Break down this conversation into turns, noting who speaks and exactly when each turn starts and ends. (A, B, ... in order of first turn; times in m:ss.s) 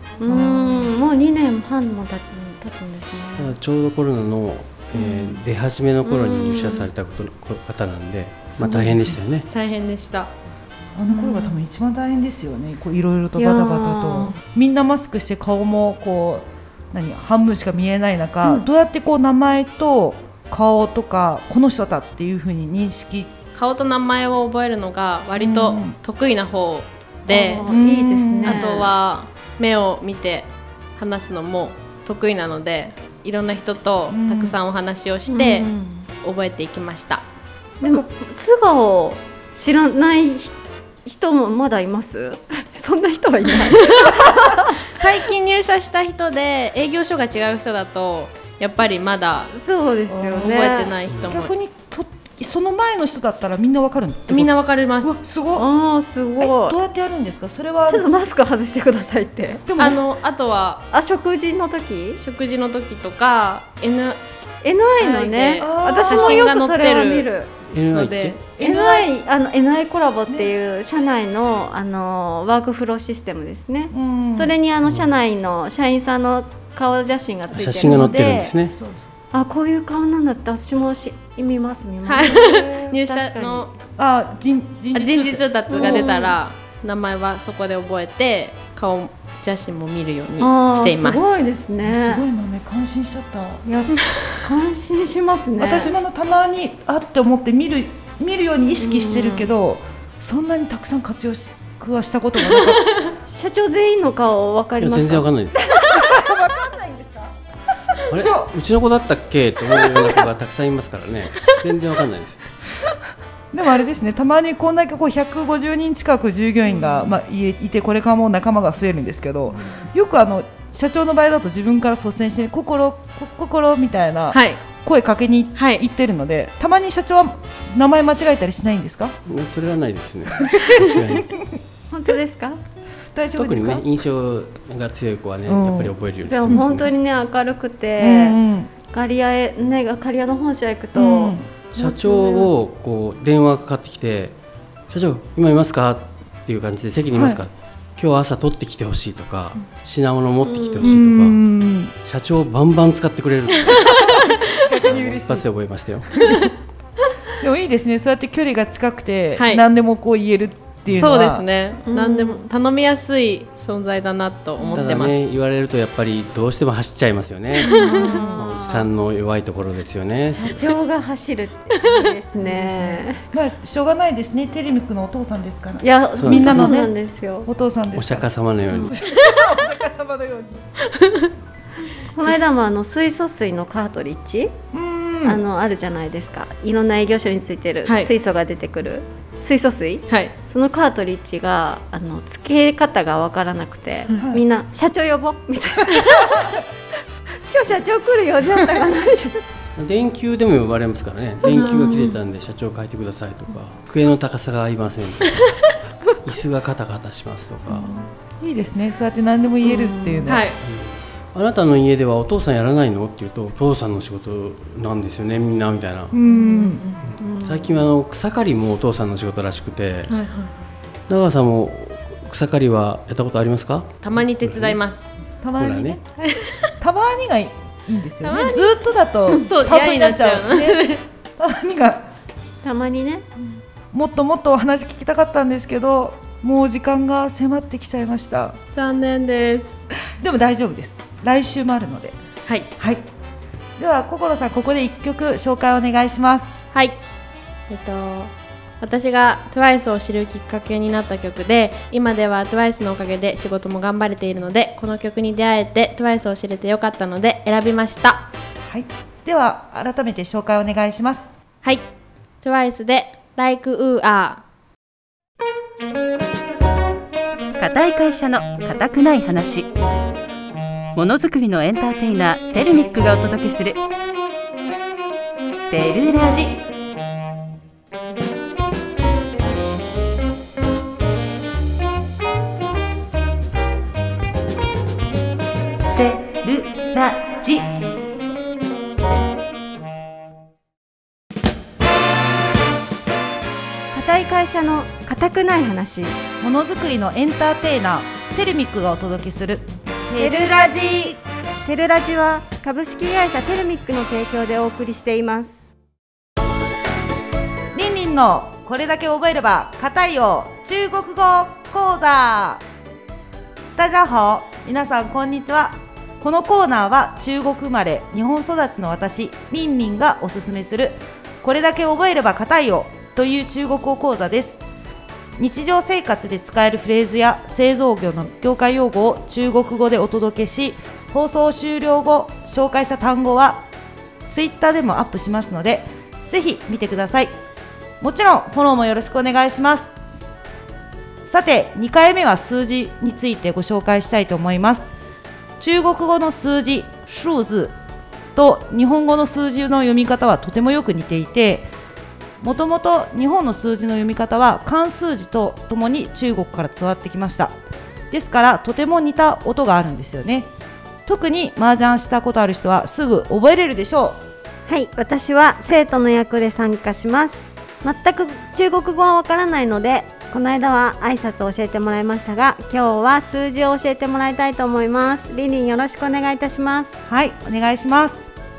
0:00.2-0:03.5 A
0:00.3-0:00.9 B
0:03.4-0:09.5 C
0:05.0-0:05.4 A
0:06.0-0:06.9 A
0:08.6-0:09.2 B
0:09.5-0:10.3 D
0:10.9-0:23.3 B
0:11.1-0:11.6 A
0:13.4-0:14.3 A
0:23.5-0:27.6 D
0:25.4-0:26.0 B
0:27.3-0:28.9 A
0:27.6-0:28.7 B
0:28.4-0:35.7 D
0:34.1-0:34.6 B
0:35.3-0:36.0 A
0:36.2-0:37.2 D
0:37.8-0:44.8 A
0:44.9-0:49.5 D
0:49.5-0:50.9 A
0:50.1-0:55.7 B
0:50.3-0:51.5 D
0:54.3-0:55.2 D
0:55.5-0:56.8 A
0:56.4-0:58.0 B
0:57.9-0:59.6 A
0:59.6-1:00.0 B
0:59.8-1:00.8 D
1:00.9-1:02.2 A
1:02.2-1:04.2 D
1:04.6-1:07.5 A
1:05.0-1:07.3 D
1:05.6-1:06.5 B
1:07.7-1:08.4 C
1:07.9-1:08.4 D
1:08.6-1:09.1 B
1:08.6-1:18.5 A
1:13.9-1:14.6 B
1:17.5-1:18.7 C
1:17.8-1:19.0 B
1:19.3-1:23.7 A
1:22.0-1:23.7 D
1:22.3-1:22.9 B
1:24.0-1:26.2 B
1:24.9-1:31.4 D
1:25.7-1:26.4 A
1:30.4-1:32.2 A
1:31.8-1:33.6 B
1:33.6-1:35.9 A
1:35.6-1:42.9 B
1:38.8-1:39.5 A
1:43.2-1:46.7 A
1:44.8-1:45.8 C
1:45.8-1:47.3 B
1:48.1-1:52.4 C
1:48.1-1:48.5 B
1:53.5-2:09.2 B
2:04.3-2:04.6 D
2:05.6-2:05.8 D
2:09.2-2:11.4 C
2:10.4-2:11.4 B
2:11.9-2:12.6 A
2:13.1-2:13.9 B
2:13.4-2:16.9 C
2:15.5-2:16.0 B
2:16.2-2:18.4 A
2:18.0-2:18.7 B
2:18.9-2:21.4 A
2:20.9-2:22.5 B
2:21.7-2:24.4 C
2:24.9-2:31.4 C
2:27.1-2:27.4 B
2:30.4-2:31.0 A
2:30.8-2:31.9 B
2:32.0-2:34.3 C
2:33.8-2:34.4 D
2:33.8-2:35.5 B
2:34.8-2:36.2 C
2:36.1-2:36.5 B
2:37.4-2:41.4 B
2:39.4-2:39.6 D
2:40.9-2:45.1 D
2:41.9-2:42.4 A
2:44.7-2:50.7 C
2:47.6-2:48.9 A
2:47.7-2:48.4 B
2:47.8-2:48.0 D
2:50.3-2:53.2 A
2:52.4-2:56.9 B
2:55.8-2:57.5 A
2:56.2-2:56.8 C
2:57.4-3:00.6 B
2:57.9-2:59.0 C
3:00.9-3:01.3 D
3:02.1-3:04.5 A
3:04.7-3:05.4 B
3:05.2-3:16.6 A
3:10.1-3:10.3 D
3:14.1-3:14.4 B
3:15.9-3:16.5 B
3:17.5-3:19.4 A
3:19.8-3:25.4 C
3:21.5-3:22.1 D
3:26.2-3:27.9 C
3:27.7-3:30.4 B
3:29.6-3:30.3 A
3:30.2-3:30.6 D
3:30.6-3:36.2 C
3:36.1-3:37.0 B
3:36.5-3:37.8 A
3:37.4-3:40.1 C
3:40.1-3:40.5 D
3:41.1-3:44.8 C
3:44.0-3:45.0 D
3:45.4-3:46.0 B
3:45.6-3:46.0 C
3:46.2-3:46.7 D
3:46.8-3:52.1 B
3:48.2-3:48.8 D
3:49.3-3:51.0 D
3:52.6-3:53.2 A
3:53.9-3:58.6 B
3:58.7-3:59.8 D
4:00.2-4:02.2 B
4:02.8-4:03.0 B
4:03.8-4:06.5 B
4:07.7-4:18.3 D
4:18.6-4:21.3 B
4:22.4-4:24.4 D
4:27.6-4:29.7 E
4:30.9-4:33.8 E
4:35.7-4:36.6 E
4:45.9-4:47.7 E
4:53.9-4:56.2 A
4:56.4-5:01.2 B
5:00.2-5:05.6 A
5:07.7-5:12.6 B
5:13.8-5:24.6 B
5:25.4-5:33.6 B
5:34.3-5:37.3 B
5:38.0-5:39.9 B
5:41.2-5:44.9 B
5:45.6-5:47.7 B
5:48.3-5:51.7 B
5:52.4-5:57.5 B
5:58.1-6:00.5 B
6:01.0-6:04.2 B
6:04.7-6:16.9 A
6:17.0-6:18.2 B